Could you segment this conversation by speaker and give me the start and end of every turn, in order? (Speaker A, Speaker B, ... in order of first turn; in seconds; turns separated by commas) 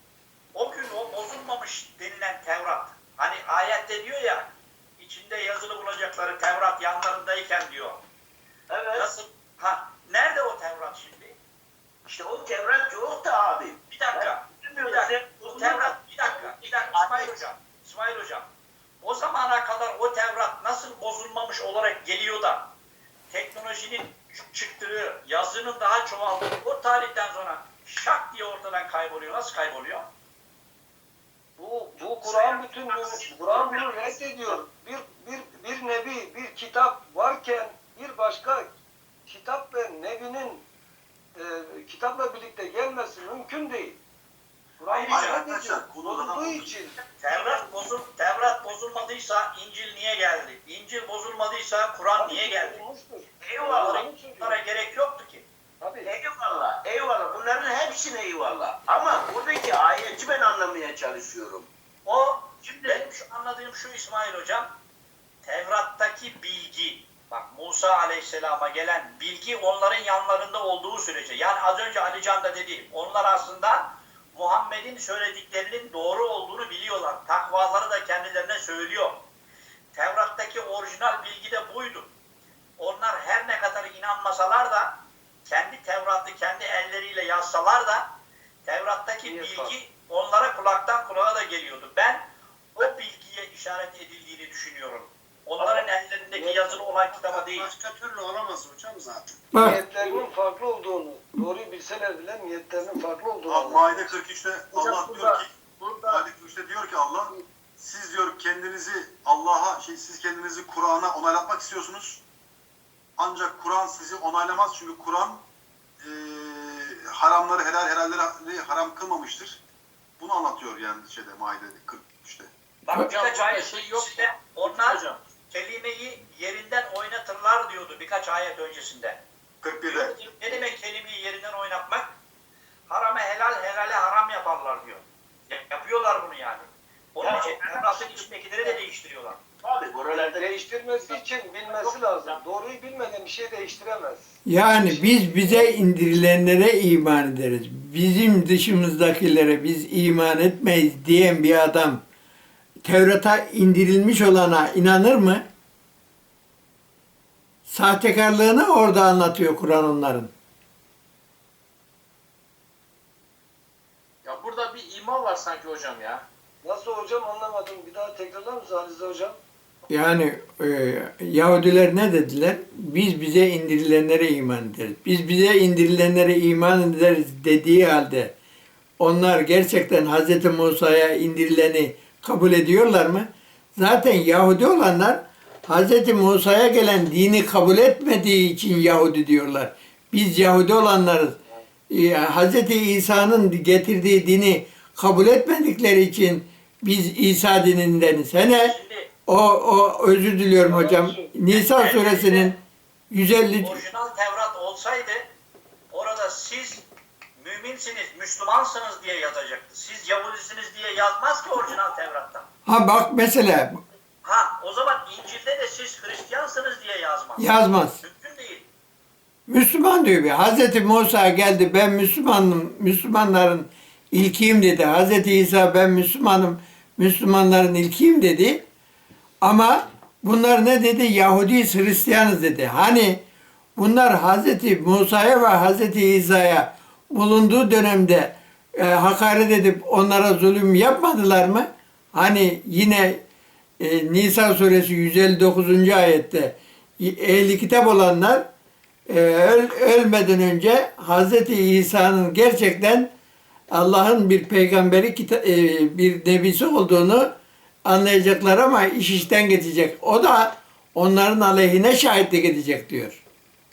Speaker A: 0.5-8.0, Speaker B: 8.7-9.1, Speaker A: 9.0-11.3, Speaker B: 12.1-17.4, Speaker A: 13.9-18.5, Speaker A: 19.0-22.7, Speaker A: 23.3-30.1, Speaker C: 31.6-38.7, Speaker B: 32.2-34.6, Speaker C: 39.3-40.6, Speaker C: 41.4-44.0, Speaker C: 44.8-47.0, Speaker A: 44.9-45.4, Speaker D: 45.1-46.7, Speaker A: 47.2-52.8, Speaker C: 52.2-54.6, Speaker B: 53.4-54.0, Speaker A: 53.8-55.5, Speaker C: 55.8-56.1, Speaker B: 56.0-61.7, Speaker A: 62.0-64.7, Speaker B: 62.6-63.1, Speaker A: 65.4-79.3, Speaker A: 79.9-82.1, Speaker A: 82.8-97.7, Speaker B: 95.6-95.9, Speaker C: 96.3-96.9, Speaker E: 97.3-99.3, Speaker F: 99.5-99.8, Speaker C: 99.6-104.1, Speaker D: 103.5-105.5, Speaker D: 106.0-112.2, Speaker D: 113.2-115.4, Speaker D: 116.0-119.6, Speaker D: 120.2-122.5, Speaker A: 122.8-129.2, Speaker G: 122.9-125.2, Speaker D: 129.6-130.2, Speaker A: 129.9-132.1, Speaker A: 132.9-139.4, Speaker B: 137.2-138.8, Speaker B: 139.6-142.4, Speaker C: 140.4-144.3, Speaker F: 144.4-152.0, Speaker C: 144.8-145.7, Speaker F: 152.8-155.4, Speaker F: 157.7-160.3, Speaker G: 164.2-166.2, Speaker C: 166.6-169.4, Speaker F: 169.9-178.3, Speaker F: 179.0-191.4, Speaker F: 191.9-198.8, Speaker A: 198.5-199.1, Speaker F: 199.3-202.6, Speaker C: 200.7-201.3, Speaker A: 201.5-202.5, Speaker F: 203.1-203.8, Speaker A: 203.6-205.3, Speaker A: 205.9-206.9, Speaker A: 207.4-212.5, Speaker F: 212.7-213.8, Speaker A: 214.2-218.7, Speaker F: 217.4-218.0, Speaker F: 219.5-228.6, Speaker F: 229.4-233.2, Speaker F: 233.8-243.2, Speaker F: 243.8-248.4, Speaker F: 249.1-253.1, Speaker F: 253.7-257.3, Speaker F: 257.9-263.2